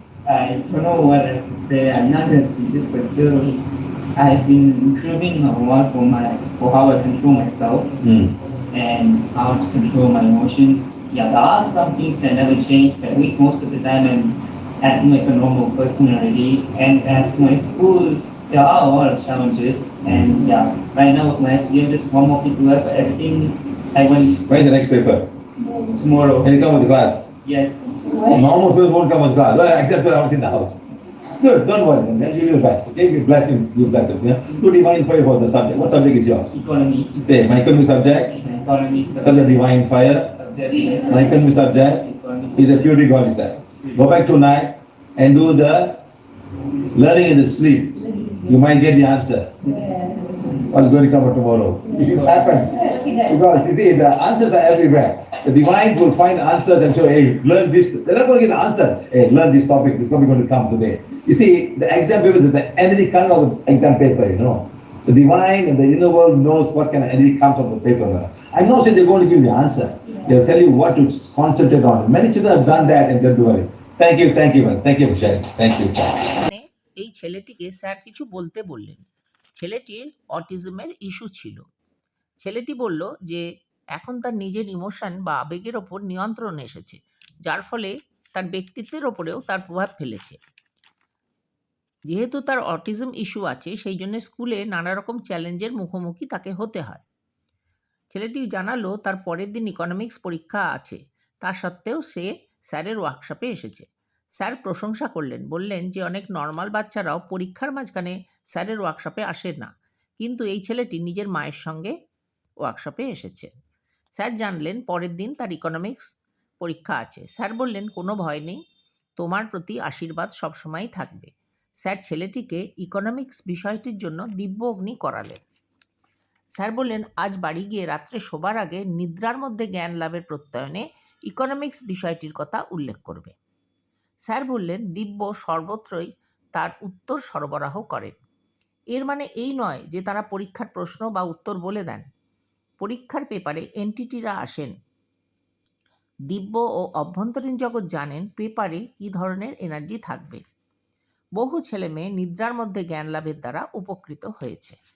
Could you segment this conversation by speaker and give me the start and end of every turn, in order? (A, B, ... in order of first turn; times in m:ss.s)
0:00.2-0:03.6 A
0:04.2-0:07.9 A
0:08.0-0:08.3 B
0:08.7-0:24.4 A
0:24.4-0:25.2 B
0:25.9-0:26.5 A
0:26.4-0:27.3 B
0:27.4-0:28.2 A
0:28.2-0:30.8 B
0:31.4-0:36.5 B
0:36.5-0:37.4 A
0:37.2-0:38.3 B
0:38.3-0:44.1 A
0:39.2-0:40.3 B
0:41.1-0:42.0 B
0:42.6-0:46.0 B
0:46.9-0:49.5 B
0:49.8-0:50.6 A
0:50.7-1:16.1 B
0:52.1-0:53.1 A
1:16.3-1:21.6 C
1:22.4-1:30.4 C
1:32.1-1:37.0 C
1:38.1-1:43.9 C
1:44.4-1:51.9 C
1:52.6-1:53.5 C
1:54.1-1:56.0 C
1:56.6-1:58.6 C
1:59.2-2:01.3 C
2:01.8-2:05.4 C
2:06.6-2:13.3 C
2:14.3-2:18.1 C
2:18.9-2:22.0 C
2:22.8-2:24.7 C
2:26.3-2:30.4 C
2:31.4-2:34.8 C